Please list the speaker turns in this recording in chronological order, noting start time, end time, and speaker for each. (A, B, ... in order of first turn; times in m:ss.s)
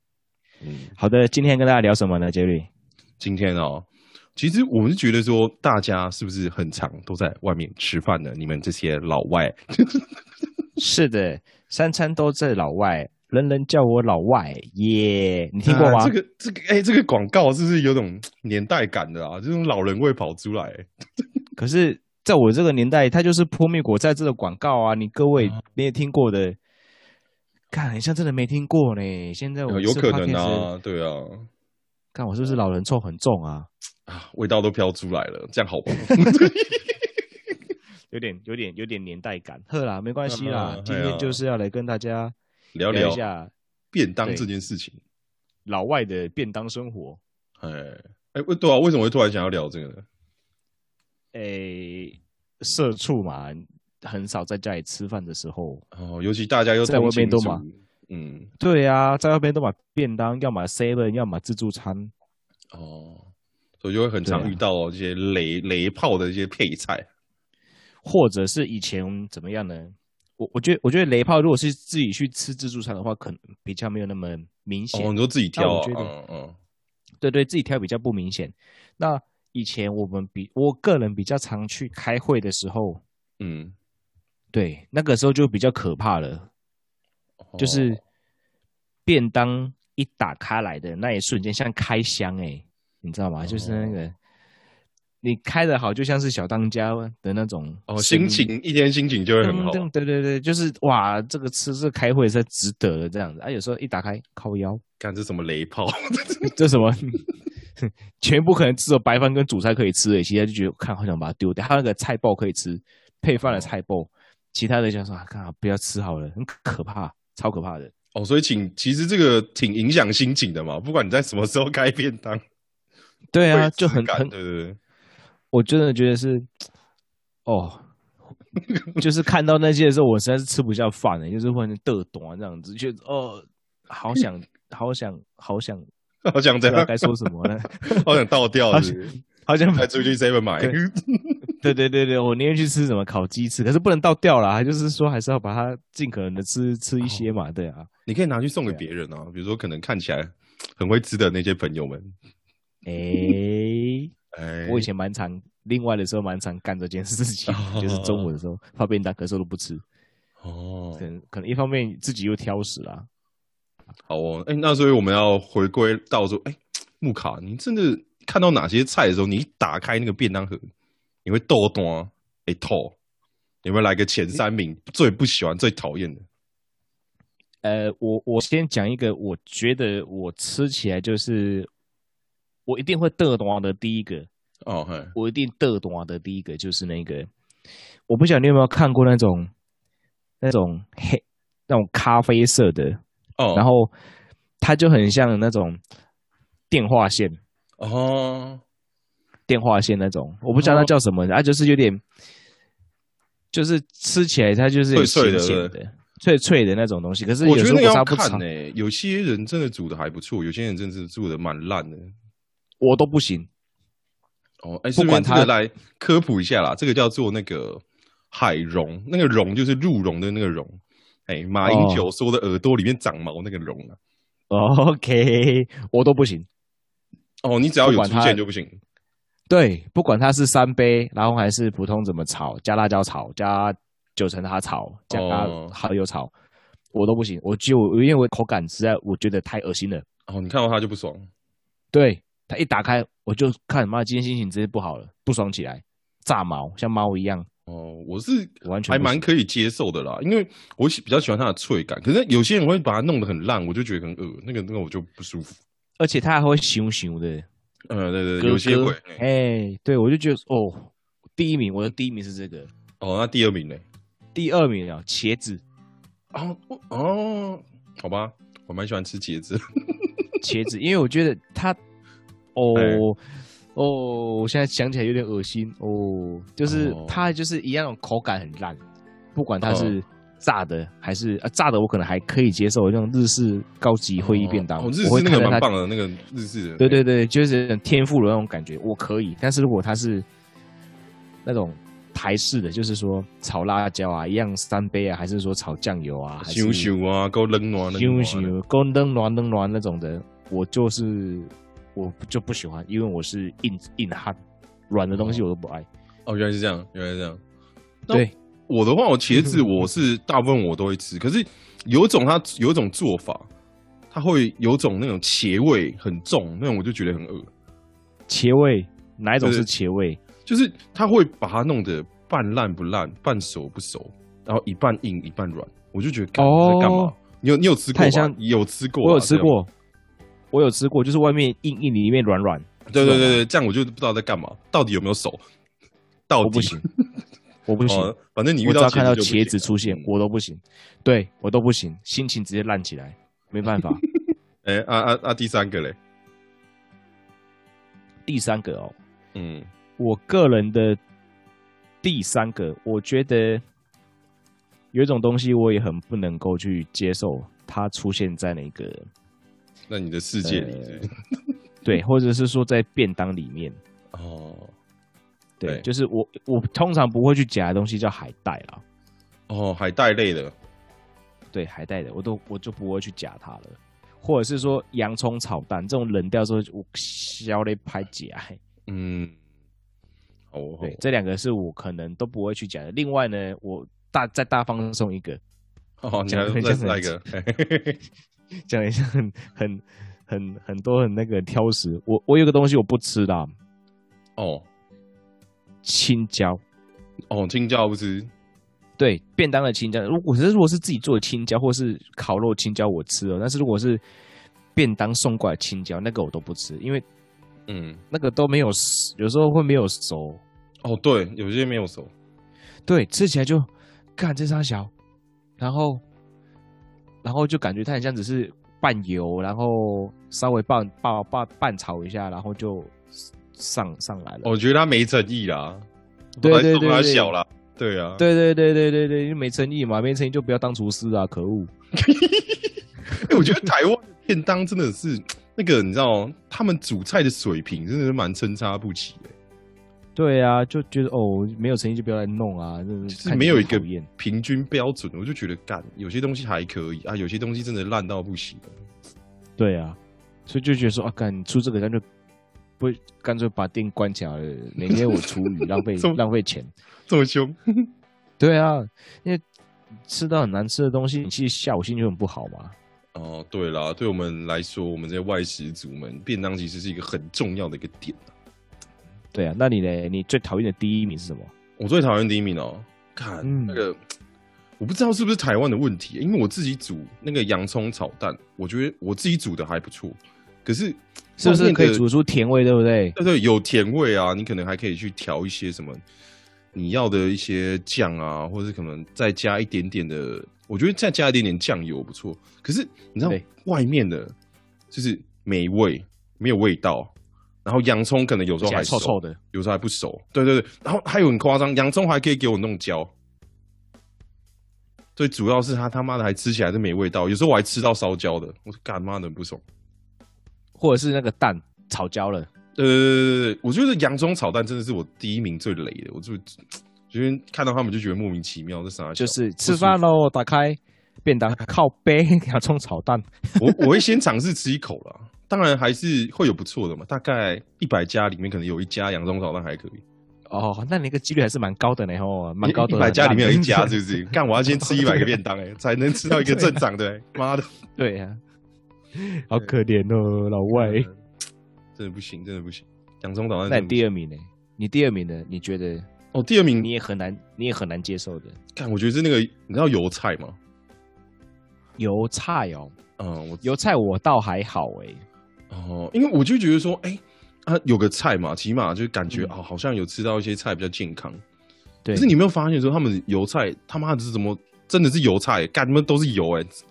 0:00.6-0:00.9 A
0:01.0-0:02.7 B
0:03.2-0:10.1 A
0:10.8-0:16.1 B
0:15.6-0:20.9 A
0:21.6-0:26.6 B
0:27.7-0:30.7 B
0:29.7-0:31.5 A
0:32.1-0:33.7 B
0:34.1-0:37.0 A
0:38.1-0:42.3 B
0:40.3-0:41.4 A
0:42.7-0:43.2 A
0:42.9-0:43.5 B
0:43.9-0:45.0 A
0:45.6-0:47.2 B
0:47.6-0:50.0 A
0:51.3-0:55.8 B
0:55.9-0:58.5 A
0:56.8-0:57.6 B
0:58.6-1:02.1 B
1:02.7-1:03.2 A
1:03.8-1:07.1 A
1:04.2-1:04.6 B
1:08.0-1:16.1 B
1:14.9-1:16.6 A
1:17.2-1:23.0 B
1:23.4-1:23.7 A
1:24.5-1:26.5 B
1:27.5-1:28.0 A
1:27.6-1:28.0 B
1:29.0-1:34.2 B
1:33.4-1:34.0 A
1:35.2-1:38.5 B
1:37.9-1:39.9 A
1:39.4-1:44.8 B
1:45.0-1:46.6 A
1:46.6-1:47.2 B
1:47.8-1:57.9 B
1:53.4-1:53.7 A
1:58.1-2:02.4 A
2:03.3-2:04.3 B
2:03.5-2:04.8 A
2:05.5-2:06.4 B
2:07.4-2:07.8 B
2:08.6-2:09.0 A
2:09.0-2:15.8 B
2:16.2-2:19.1 A
2:16.6-2:18.1 B
2:18.7-2:19.9 B
2:19.7-2:21.5 A
2:21.6-2:27.9 B
2:27.0-2:27.3 A
2:28.1-2:32.1 A
2:32.8-2:34.1 B
2:34.3-2:34.9 A
2:34.6-2:39.8 B
2:37.5-2:38.3 A
2:40.4-2:41.0 A
2:41.0-2:43.1 B
2:44.1-2:50.7 A
2:51.2-2:53.0 A
2:53.6-2:56.2 A
2:57.6-3:01.7 B
3:02.6-3:04.3 B
3:04.6-3:05.1 A
3:05.1-3:07.3 B
3:08.1-3:09.5 B
3:10.4-3:13.0 B
3:13.4-3:13.7 A
3:13.5-3:13.9 B
3:14.6-3:15.8 B
3:16.7-3:17.4 B
3:17.8-3:18.6 A
3:19.5-3:22.0 B
3:20.6-3:20.9 A
3:23.5-3:28.4 B
3:24.9-3:25.8 A
3:27.4-3:32.1 A
3:32.8-3:33.5 B
3:34.6-3:44.0 A
3:34.9-3:35.5 B
3:41.6-3:42.1 B
3:44.5-3:46.5 B
3:47.4-3:48.8 A
3:47.8-3:48.4 B
3:49.5-3:56.3 B
3:55.1-3:55.7 A
3:56.9-4:00.0 B
4:00.3-4:01.3 A
4:01.9-4:07.5 B
4:07.7-4:15.6 A
4:08.6-4:09.2 B
4:16.0-4:17.4 B
4:17.9-4:19.2 A
4:18.4-4:22.7 B
4:23.0-4:23.8 A
4:24.3-4:25.6 B
4:26.3-4:30.1 A
4:30.4-4:31.8 B
4:32.5-4:33.2 B
4:32.7-4:33.0 A
4:33.7-4:38.8 B
4:36.6-4:37.3 A
4:39.3-4:45.7 B
4:39.6-4:40.0 A
4:44.2-4:47.0 A
4:46.8-4:50.2 B
4:51.4-4:56.9 B
4:56.4-4:58.5 A
4:57.9-5:04.4 B
5:04.9-5:05.9 B
5:05.1-5:05.4 A
5:06.2-5:07.4 A
5:08.1-5:13.5 A
5:14.1-5:17.5 A
5:18.3-5:20.2 B
5:19.4-5:19.7 A
5:20.4-5:29.5 A
5:26.4-5:27.1 B
5:27.9-5:28.4 B
5:29.0-5:29.7 B
5:30.5-5:33.4 B
5:32.9-5:35.4 A
5:36.3-5:37.0 A
5:36.4-5:36.8 B
5:37.7-5:44.0 B
5:37.9-5:40.1 A
5:44.6-5:46.0 A
5:48.3-5:49.0 B
5:49.3-5:49.7 A
5:50.0-5:51.0 B
5:52.0-5:53.6 B
5:54.9-5:59.1 B
5:59.9-6:01.1 A
6:00.4-6:01.1 B
6:01.8-6:03.8 B
6:04.1-6:04.7 A
6:05.6-6:08.8 B
6:09.5-6:10.5 A
6:11.5-6:18.6 B
6:18.9-6:19.4 A
6:20.5-6:21.0 A
6:20.8-6:25.4 B
6:26.0-6:28.0 A
6:26.3-6:27.1 B
6:28.6-6:33.5 B
6:34.4-6:34.6 A
6:35.8-6:36.6 B
6:37.3-6:38.3 A
6:39.0-6:44.0 B
6:44.7-6:47.0 B
6:47.7-6:48.0 A
6:48.1-6:50.4 B
6:50.8-6:52.1 A
6:52.8-6:54.9 B
6:55.6-6:56.0 B
6:57.2-7:04.5 B
7:04.4-7:05.8 A
7:06.4-7:07.3 B
7:06.4-7:08.2 A
7:08.2-7:11.7 B
7:11.9-7:19.3 A
7:13.1-7:13.6 B
7:20.2-7:24.1 B
7:23.1-7:28.8 A
7:29.6-7:32.0 B
7:32.8-7:36.7 B
7:34.9-7:36.2 A
7:37.1-7:37.9 A
7:38.4-7:39.4 B
7:40.1-7:42.7 B
7:43.1-7:48.3 A
7:49.3-7:51.5 B
7:51.8-7:54.0 A
7:53.4-7:53.8 B
7:54.8-8:02.0 A
8:01.4-8:03.2 B
8:03.2-8:06.0 A
8:06.7-8:14.3 A
8:14.9-8:17.1 A
8:17.6-8:23.1 A
8:18.6-8:19.4 B
8:25.2-8:29.6 A
8:30.8-8:32.5 B
8:32.8-8:40.0 A
8:39.2-8:43.8 B
8:43.6-8:50.0 A
8:50.5-8:54.0 B
8:52.6-8:57.7 A
8:54.8-8:55.3 B
8:56.2-8:56.8 B
8:58.0-8:58.4 B
8:59.1-9:01.1 B
9:00.7-9:01.2 A
9:02.0-9:04.0 A
9:03.7-9:06.1 B
9:06.3-9:06.9 A
9:06.8-9:08.6 B
9:08.7-9:10.6 A
9:12.0-9:12.9 B
9:13.2-9:13.6 A
9:13.6-9:15.2 B
9:15.7-9:21.4 A
9:22.0-9:22.3 B
9:22.1-9:26.8 A